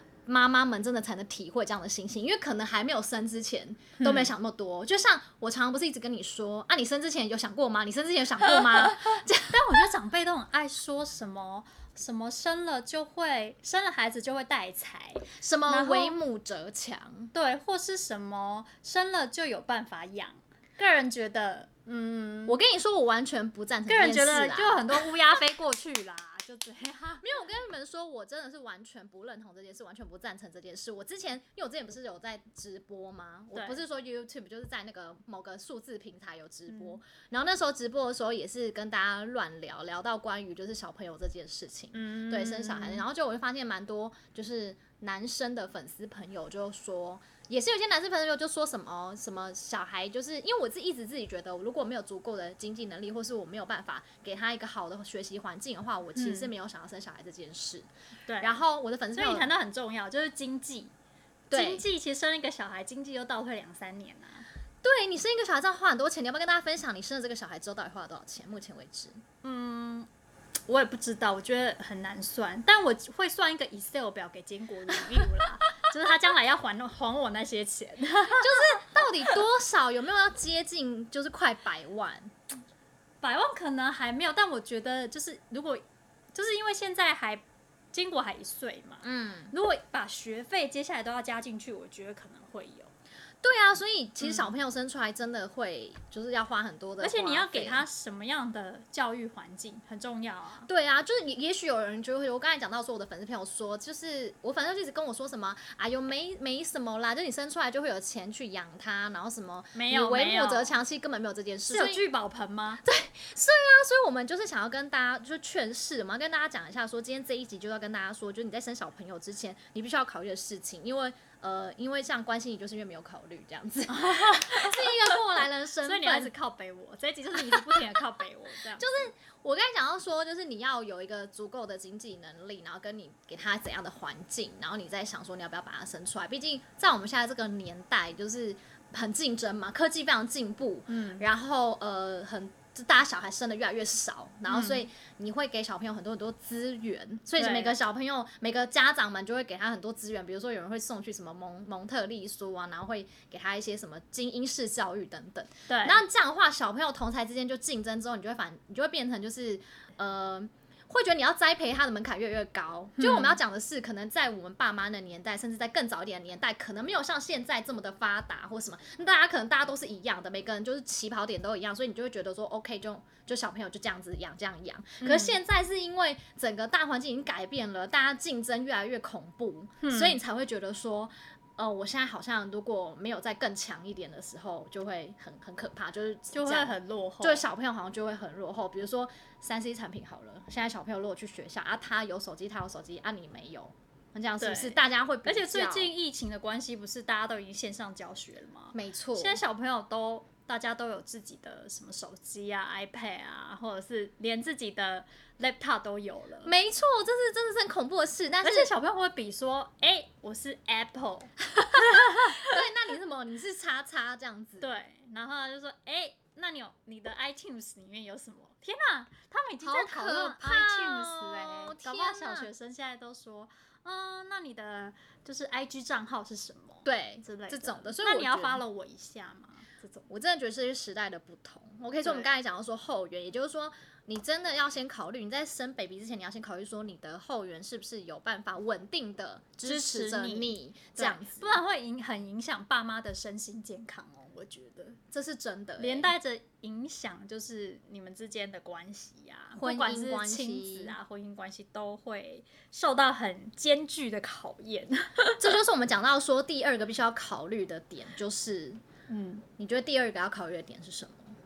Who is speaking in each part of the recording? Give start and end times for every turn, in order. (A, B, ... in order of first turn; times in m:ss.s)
0:00.2-0:09.6 A
0:04.0-0:04.3 B
0:08.6-0:16.2 B
0:15.4-0:17.3 A
0:17.3-0:22.6 B
0:22.4-0:25.1 A
0:23.9-0:27.2 B
0:27.2-0:57.9 A
0:33.5-0:33.8 B
0:36.7-0:37.0 B
0:41.9-0:43.0 B
0:56.2-0:56.5 B
0:58.3-0:58.6 B
0:58.4-0:59.5 A
0:59.1-1:00.9 B
1:01.5-1:01.8 A
1:01.5-1:04.4 B
1:04.8-1:09.2 A
1:09.4-1:10.1 B
1:10.7-1:19.4 B
1:18.3-1:22.3 A
1:23.2-1:32.9 B
1:29.0-1:29.5 A
1:33.4-1:37.8 A
1:34.2-1:34.5 B
1:37.0-1:40.7 B
1:40.7-1:52.0 A
1:49.7-1:50.8 B
1:51.7-1:52.8 B
1:52.8-2:06.3 A
2:03.9-2:05.2 B
2:05.8-2:09.0 B
2:07.4-2:08.0 A
2:08.8-3:15.9 A
2:20.9-2:21.2 B
2:24.5-2:24.8 B
2:27.4-2:27.8 B
2:35.7-2:36.0 B
2:43.0-2:43.4 B
2:55.0-2:55.4 B
2:59.8-3:00.2 B
3:06.3-3:07.4 B
3:14.4-3:26.5 B
3:18.7-3:19.4 A
3:26.4-3:28.7 A
3:28.4-3:32.5 B
3:31.6-3:34.7 A
3:34.6-3:50.1 B
3:39.6-3:42.5 A
3:46.8-3:48.6 A
3:50.1-4:01.6 A
3:52.0-3:52.3 B
3:59.6-4:05.0 B
4:05.1-4:06.1 A
4:05.8-4:15.6 B
4:09.6-4:10.9 A
4:15.4-4:18.8 A
4:19.1-4:19.4 B
4:19.6-4:21.3 A